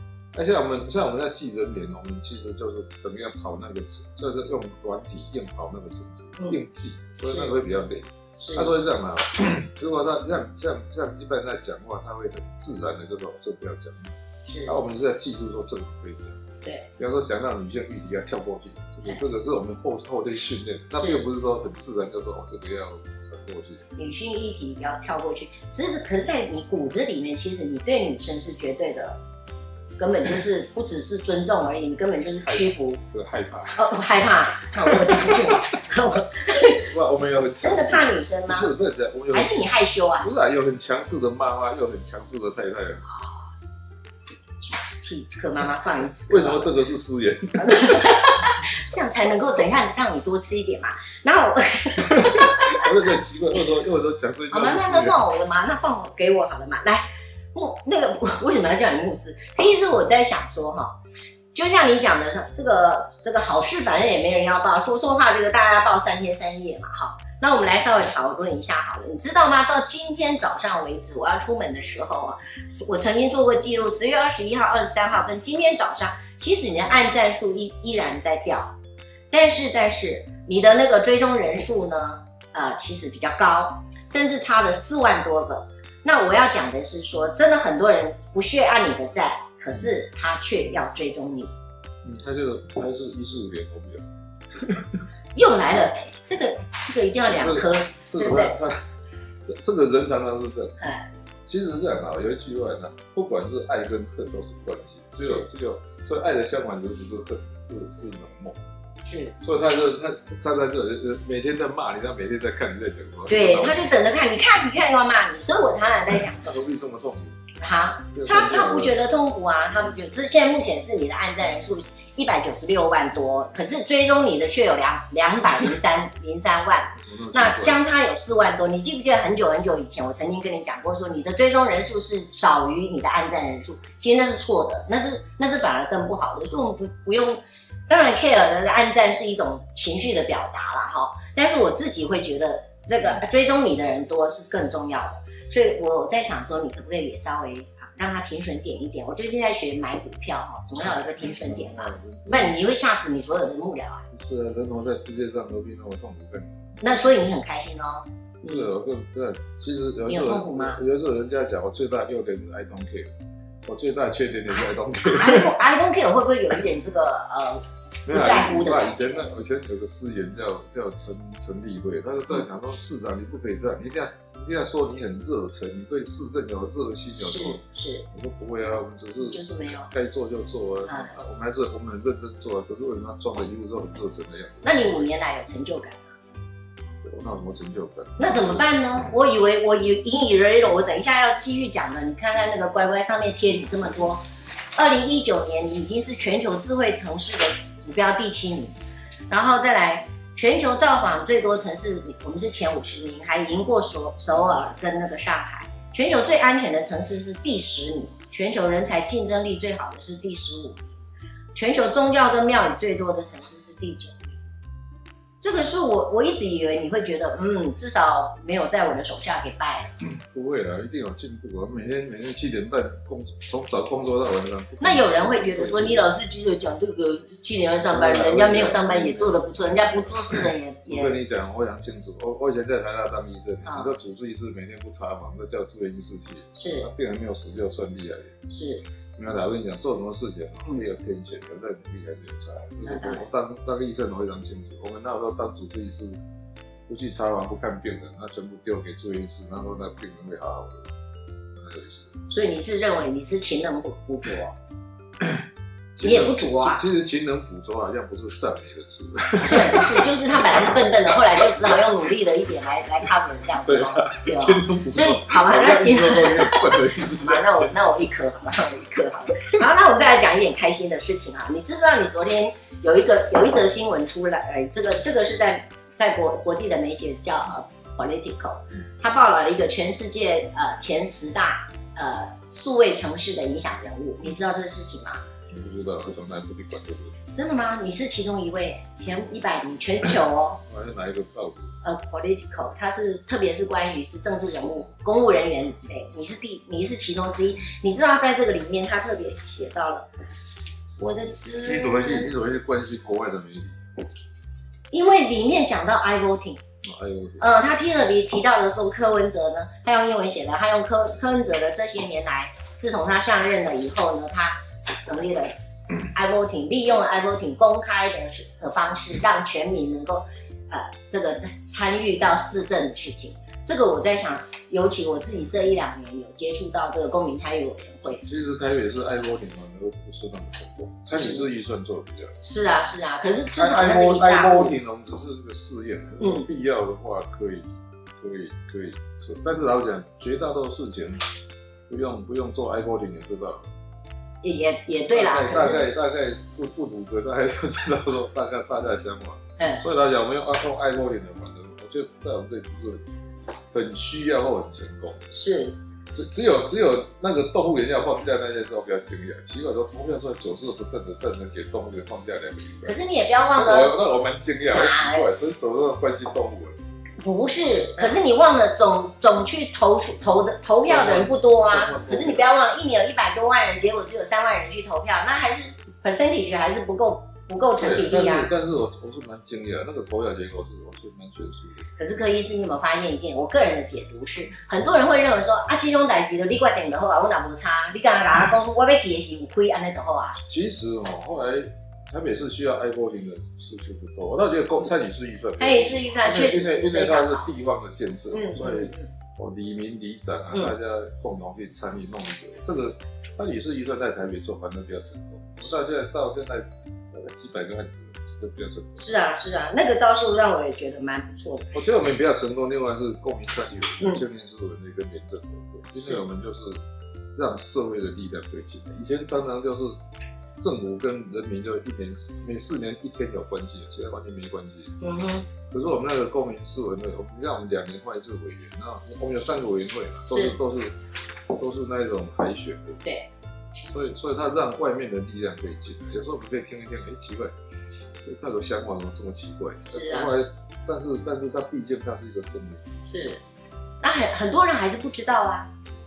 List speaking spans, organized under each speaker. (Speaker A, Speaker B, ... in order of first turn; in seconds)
Speaker A: 0.3-16.4, 17.0-23.9, 32.4-33.8, 34.8-35.7, 36.7-39.7, 40.2-43.0, 46.3-48.2, 52.1-55.2, 92.0-95.0, 97.3-98.9, 99.5-100.7, 101.5-108.6, 109.4-113.9, 116.3-117.4, 118.1-119.0, 127.0-127.8, 150.7-152.6, 154.1-156.8, 158.4-163.1, 163.6-165.6, 168.1-185.1, 187.0-188.7, 220.1-226.1, 227.9-238.5, 239.2-246.2, 246.9-250.9, 251.5-252.2, 255.2-255.4, 256.0-261.9, 263.6-267.8, 285.5-287.2, 290.6-291.7, 301.6-303.8, 306.8-307.5, 328.2-332.4, 333.6-341.2, 341.9-343.7, 345.1-353.0, 353.7-355.3, 356.1-363.0, 363.6-366.8, 370.8-372.5, 377.8-381.9, 390.4-409.1, 411.7-416.8, 417.4-419.9, 420.6-425.0, 425.7-431.0, 431.5-433.0, 433.9-437.5, 438.2-442.9
Speaker B: 7.3-7.5, 8.4-8.7, 14.5-14.8, 21.0-21.2, 24.0-29.2, 30.0-33.0, 33.8-36.9, 37.6-38.7, 39.3-40.3, 43.1-43.5, 44.6-46.7, 47.6-52.9, 54.5-61.0, 61.5-78.8, 79.3-91.5, 95.3-98.6, 100.8-101.1, 109.0-109.4, 113.3-116.4, 117.6-154.1, 156.8-158.7, 160.1-160.8, 164.5-169.3, 177.2-178.1, 179.2-179.9, 180.9-181.1, 184.6-186.1, 188.2-194.2, 194.8-198.8, 199.3-210.9, 211.5-214.4, 215.4-219.9, 224.8-231.2, 233.7-233.9, 236.6-236.9, 238.5-238.8, 242.8-243.3, 252.3-254.6, 256.0-256.8, 259.4-285.2, 287.3-290.6, 291.8-300.1, 301.0-302.3, 304.9-306.6, 307.4-328.2, 331.1-331.5, 332.4-334.7, 336.2-336.5, 344.4-345.9, 349.6-349.9, 355.3-355.8, 362.9-363.9, 364.7-365.3, 367.2-378.5, 382.0-390.4, 395.6-397.5, 398.3-399.1, 409.0-411.7, 425.0-425.5, 430.3-430.6, 439.9-440.3, 443.1-443.4, 444.0-445.7